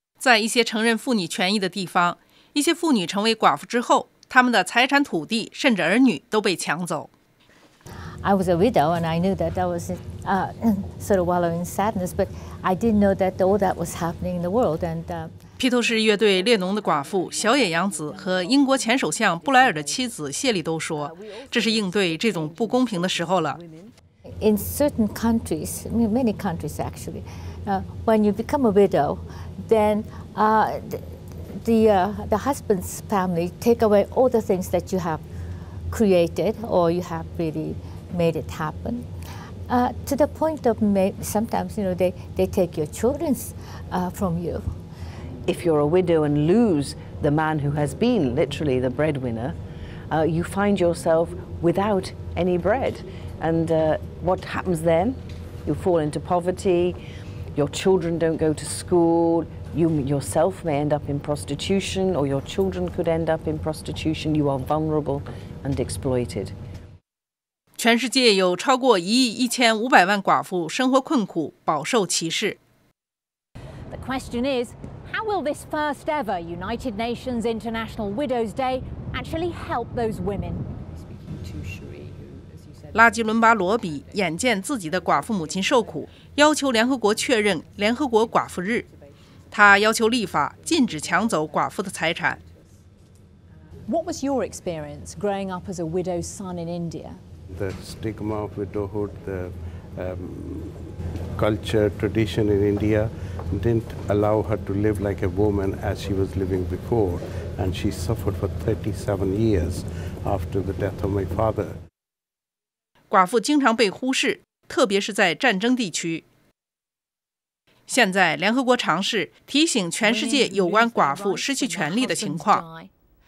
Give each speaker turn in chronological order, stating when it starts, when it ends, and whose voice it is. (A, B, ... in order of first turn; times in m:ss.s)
0:00.2-0:07.1 A
0:08.2-0:15.4 B
0:15.6-0:23.6 A
0:16.1-0:20.1 C
0:20.9-0:23.9 C
0:24.4-0:35.2 B
0:35.9-0:39.1 B
0:39.7-0:44.6 B
0:45.5-0:49.6 C
0:50.1-0:57.0 C
0:57.6-1:06.5 C
1:07.8-1:12.6 A
1:13.9-1:20.6 D
1:21.4-1:22.5 C
1:22.9-1:28.9 A
1:29.5-1:32.4 A
1:33.8-1:37.2 D
1:37.5-1:51.8 E
1:53.1-1:56.2 A
1:57.9-2:02.6 A
2:00.0-2:02.9 D